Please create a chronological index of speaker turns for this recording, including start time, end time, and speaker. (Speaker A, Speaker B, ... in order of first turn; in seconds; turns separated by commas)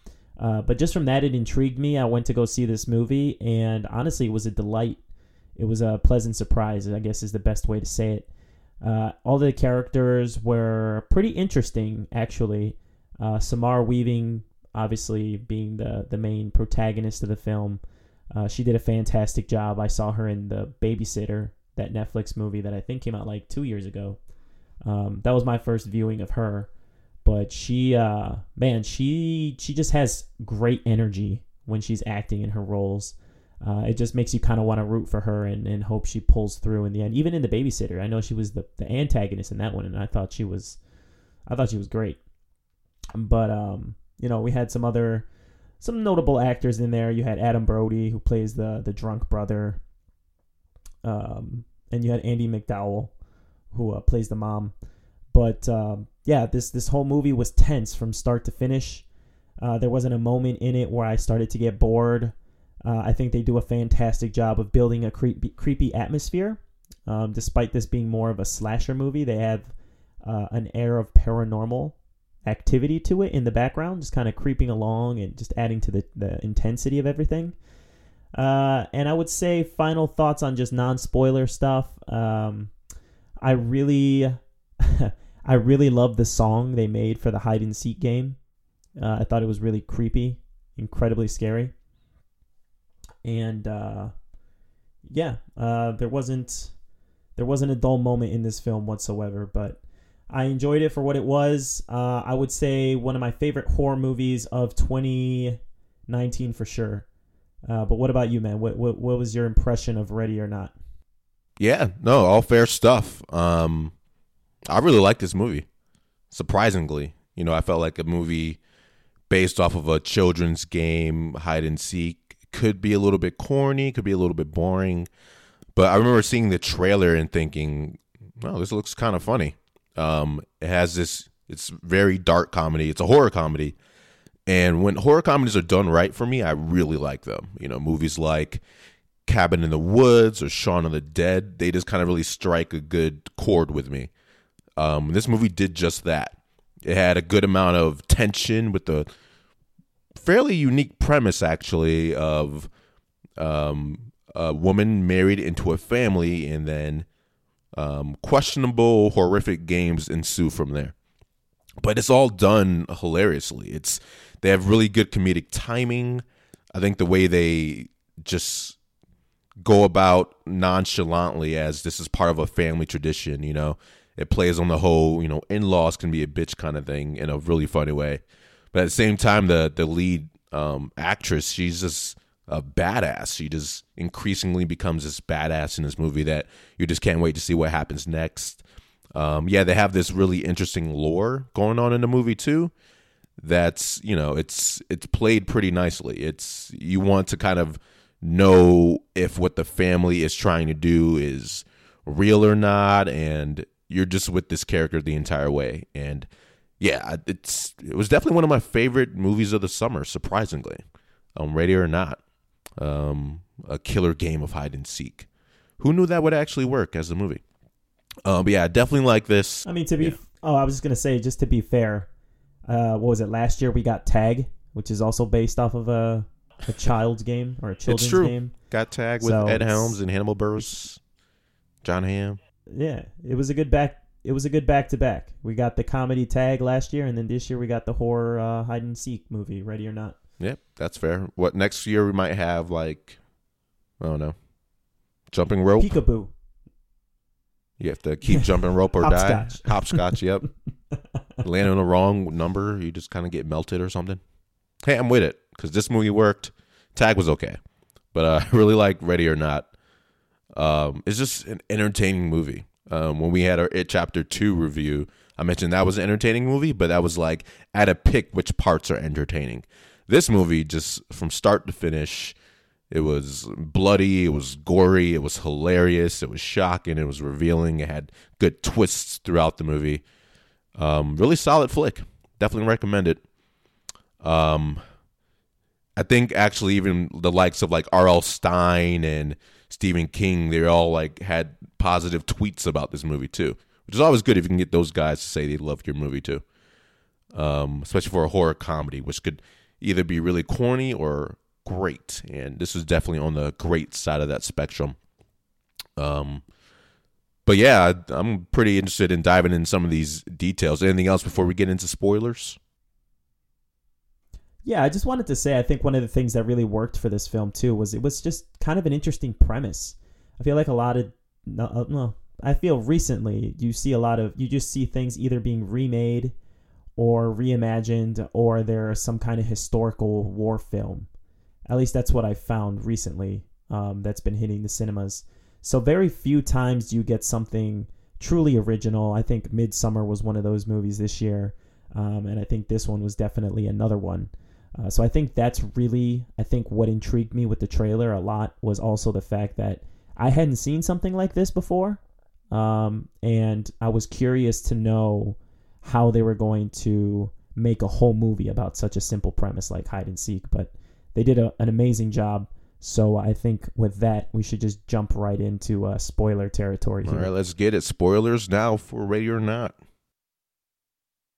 Speaker A: 0.4-5.0, Speaker A: 5.6-8.3, Speaker A: 8.8-17.8, Speaker A: 18.4-24.2, Speaker A: 24.9-26.7, Speaker A: 27.2-40.8, Speaker A: 41.5-42.2, Speaker A: 43.2-45.3, Speaker A: 45.8-49.8, Speaker A: 51.0-53.1, Speaker A: 53.7-54.7, Speaker A: 55.3-59.0, Speaker A: 59.6-69.7, Speaker A: 70.2-77.5, Speaker A: 78.3-82.7, Speaker A: 83.4-88.4, Speaker A: 89.0-91.7, Speaker A: 93.2-94.1, Speaker A: 95.1-96.7, Speaker A: 97.4-107.1, Speaker A: 107.7-110.8, Speaker B: 111.6-113.9, Speaker B: 114.7-115.7, Speaker B: 116.3-118.6, Speaker B: 119.3-125.1, Speaker B: 125.8-133.8, Speaker B: 134.5-138.6, Speaker B: 139.3-144.1, Speaker B: 144.8-149.1, Speaker B: 150.2-152.7, Speaker B: 153.4-157.1, Speaker B: 157.8-160.9, Speaker B: 161.8-168.8, Speaker B: 169.6-178.2, Speaker B: 178.7-188.6, Speaker B: 189.2-192.7, Speaker B: 193.4-206.3, Speaker B: 206.8-210.8, Speaker B: 211.4-212.2, Speaker B: 212.8-215.3, Speaker B: 215.8-217.4, Speaker B: 218.2-220.2, Speaker A: 219.7-222.1, Speaker A: 222.7-228.5, Speaker B: 227.9-231.0, Speaker A: 229.2-230.0, Speaker B: 231.8-232.4, Speaker A: 232.7-240.2, Speaker B: 240.4-243.2, Speaker B: 244.0-244.3, Speaker B: 245.3-246.0, Speaker A: 245.8-246.3, Speaker B: 247.8-250.5, Speaker A: 248.3-250.2, Speaker B: 251.4-254.2, Speaker B: 254.8-257.6, Speaker B: 258.1-259.7, Speaker B: 260.6-272.4, Speaker B: 272.9-280.0, Speaker B: 280.8-283.2, Speaker B: 284.2-284.8, Speaker B: 286.0-296.4, Speaker B: 297.3-305.0, Speaker B: 306.0-306.4, Speaker B: 307.5-312.6, Speaker A: 314.6-326.4, Speaker A: 327.0-331.1, Speaker A: 331.7-352.0, Speaker A: 352.5-367.3, Speaker B: 367.0-369.8